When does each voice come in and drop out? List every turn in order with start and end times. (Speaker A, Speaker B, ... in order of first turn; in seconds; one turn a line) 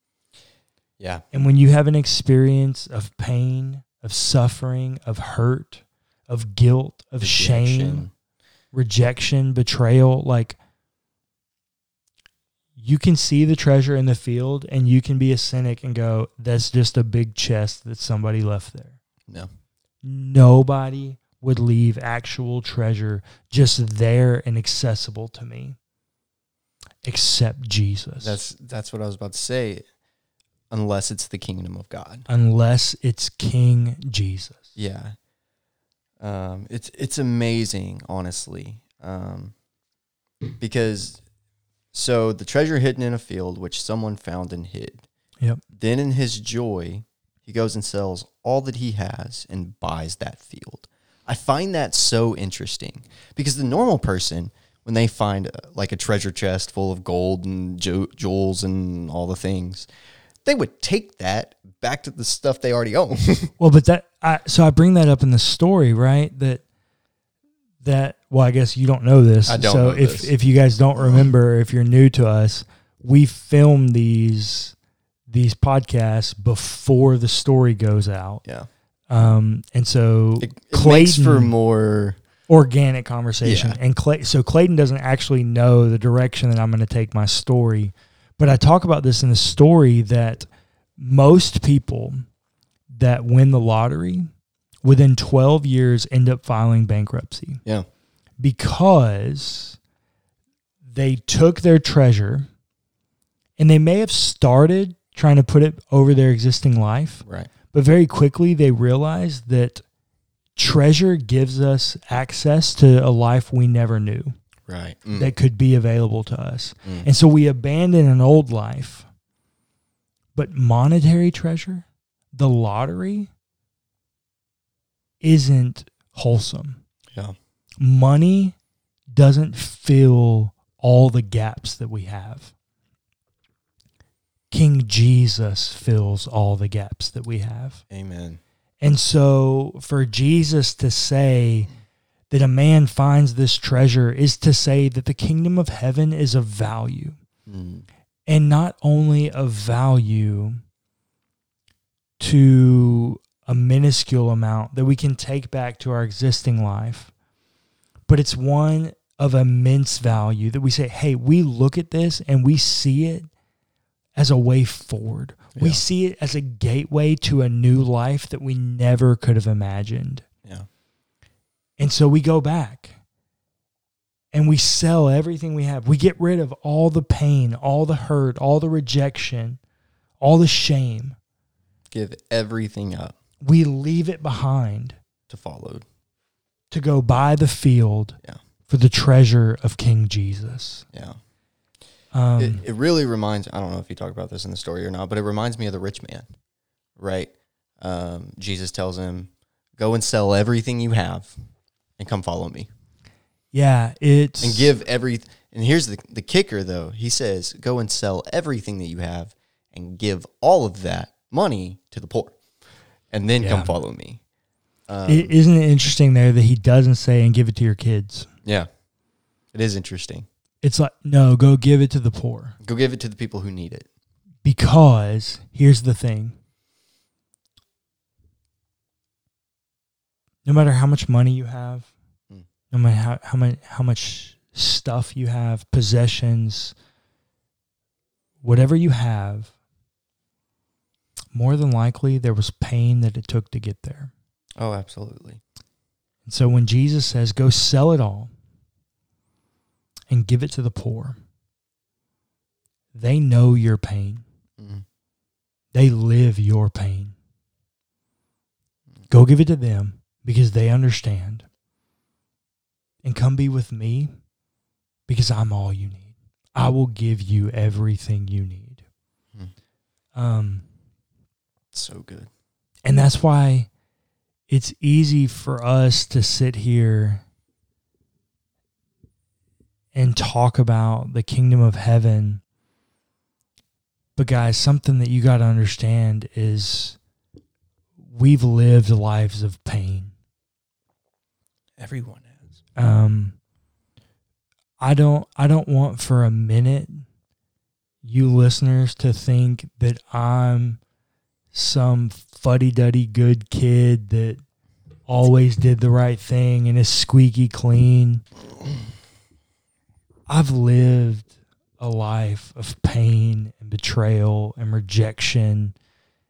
Speaker A: 1.0-1.2
Speaker B: 1.3-8.1
Speaker A: 7.2-8.1
Speaker B: 8.7-10.6
Speaker B: 12.8-19.0
Speaker B: 20.0-25.8
Speaker B: 27.0-28.4
Speaker A: 28.2-29.9
Speaker A: 30.7-32.3
Speaker B: 32.3-34.7
Speaker A: 34.8-35.2
Speaker A: 36.2-39.5
Speaker A: 40.6-41.2
Speaker A: 41.9-45.1
Speaker A: 45.7-59.9
Speaker A: 60.4-63.5
Speaker B: 63.6-66.6
Speaker B: 67.8-74.8
Speaker A: 69.5-70.3
Speaker A: 71.0-71.2
Speaker B: 75.3-78.4
Speaker B: 79.1-81.5
Speaker A: 80.4-82.2
Speaker B: 82.5-90.5
Speaker A: 83.4-83.8
Speaker B: 91.0-92.3
Speaker B: 92.9-94.3
Speaker B: 94.8-97.6
Speaker B: 98.4-99.8
Speaker B: 100.9-102.5
Speaker B: 103.6-109.8
Speaker A: 107.2-107.5
Speaker B: 110.6-114.4
Speaker A: 114.7-115.3
Speaker B: 115.2-119.1
Speaker B: 120.3-123.3
Speaker B: 125.2-126.8
Speaker B: 127.8-128.6
Speaker B: 129.2-132.5
Speaker B: 134.5-137.8
Speaker A: 137.9-138.4
Speaker B: 138.8-141.7
Speaker B: 142.3-147.2
Speaker A: 147.5-147.9
Speaker B: 148.3-150.6
Speaker B: 152.2-157.1
Speaker B: 158.1-163.3
Speaker B: 164.2-170.2
Speaker A: 165.6-165.8
Speaker B: 171.8-173.0
Speaker B: 174.3-179.6
Speaker B: 180.2-181.2
Speaker A: 181.9-183.2
Speaker B: 183.4-185.0
Speaker A: 185.3-185.8
Speaker B: 186.7-190.9
Speaker A: 190.9-191.2
Speaker B: 192.1-192.6
Speaker A: 192.4-196.3
Speaker A: 197.0-201.4
Speaker A: 202.0-202.7
Speaker B: 203.5-204.7
Speaker A: 204.4-212.4
Speaker A: 213.1-214.2
Speaker B: 213.4-213.8
Speaker A: 214.9-215.3
Speaker B: 215.1-218.3
Speaker A: 219.5-220.3
Speaker B: 220.6-222.6
Speaker A: 222.6-223.9
Speaker B: 224.4-226.4
Speaker B: 230.4-231.9
Speaker B: 232.7-236.8
Speaker B: 238.4-239.5
Speaker B: 241.3-244.1
Speaker A: 244.6-245.4
Speaker B: 246.3-248.3
Speaker B: 250.1-251.2
Speaker B: 252.9-254.2
Speaker A: 254.6-254.8
Speaker B: 255.7-257.1
Speaker B: 259.1-261.4
Speaker B: 263.0-264.1
Speaker B: 265.1-268.8
Speaker B: 270.1-270.6
Speaker A: 271.7-272.3
Speaker B: 272.9-273.7
Speaker B: 274.5-277.2
Speaker B: 279.9-282.4
Speaker B: 284.2-287.0
Speaker B: 288.1-290.1
Speaker A: 291.8-292.5
Speaker B: 292.8-293.4
Speaker B: 294.8-297.1
Speaker B: 298.0-300.8
Speaker B: 301.5-304.4
Speaker B: 305.1-308.2
Speaker B: 310.3-315.8